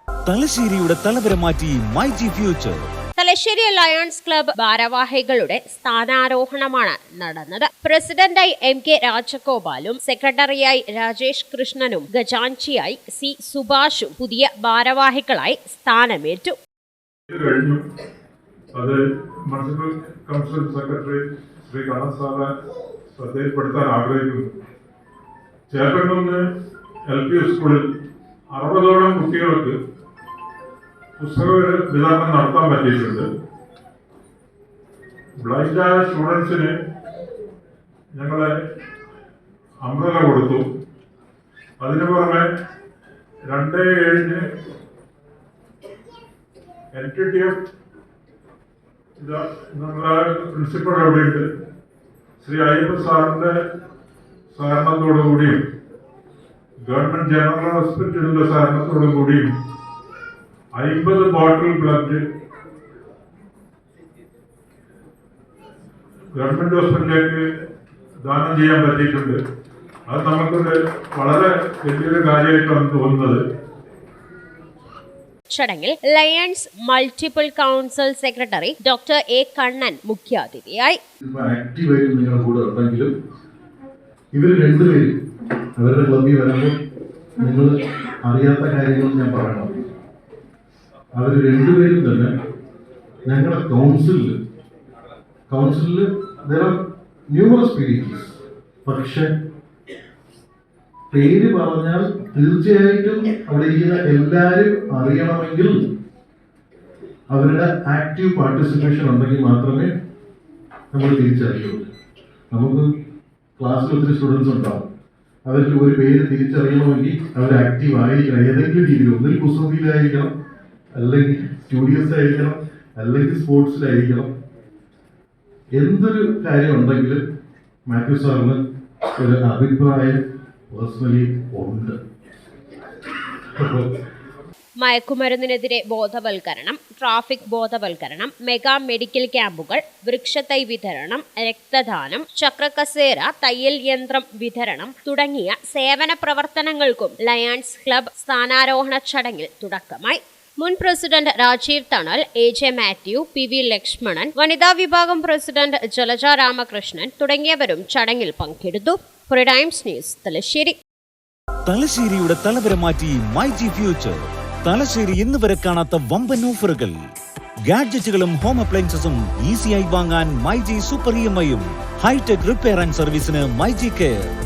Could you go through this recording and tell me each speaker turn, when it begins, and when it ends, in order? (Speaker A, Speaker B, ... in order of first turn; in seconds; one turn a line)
Speaker A: 0.3-2.8
Speaker B: 3.2-16.6
Speaker C: 17.3-17.8
Speaker C: 18.8-22.5
Speaker C: 23.2-24.5
Speaker C: 25.7-26.4
Speaker C: 27.1-27.9
Speaker C: 28.5-29.8
Speaker C: 31.2-33.3
Speaker C: 35.4-36.7
Speaker C: 38.2-38.5
Speaker C: 39.9-40.6
Speaker C: 41.8-42.4
Speaker C: 43.5-44.4
Speaker C: 46.9-47.6
Speaker C: 49.2-51.4
Speaker C: 52.4-53.5
Speaker C: 54.5-55.5
Speaker C: 56.9-59.4
Speaker C: 60.8-62.2
Speaker C: 66.4-67.4
Speaker C: 68.2-69.4
Speaker C: 70.1-73.4
Speaker B: 75.5-81.0
Speaker D: 81.2-83.1
Speaker D: 84.3-85.1
Speaker D: 85.8-86.7
Speaker D: 87.4-89.7
Speaker D: 91.2-92.3
Speaker D: 93.3-94.3
Speaker D: 95.5-96.8
Speaker D: 97.3-99.3
Speaker D: 101.1-105.8
Speaker D: 107.3-109.9
Speaker D: 110.9-111.8
Speaker D: 112.5-112.9
Speaker D: 113.6-114.9
Speaker D: 115.5-120.3
Speaker D: 121.0-124.3
Speaker D: 125.8-127.2
Speaker D: 127.9-128.6
Speaker D: 129.2-130.2
Speaker D: 130.7-132.0
Speaker D: 133.6-133.9
Speaker B: 134.8-160.8
Speaker A: 161.7-167.1
Speaker A: 167.7-174.3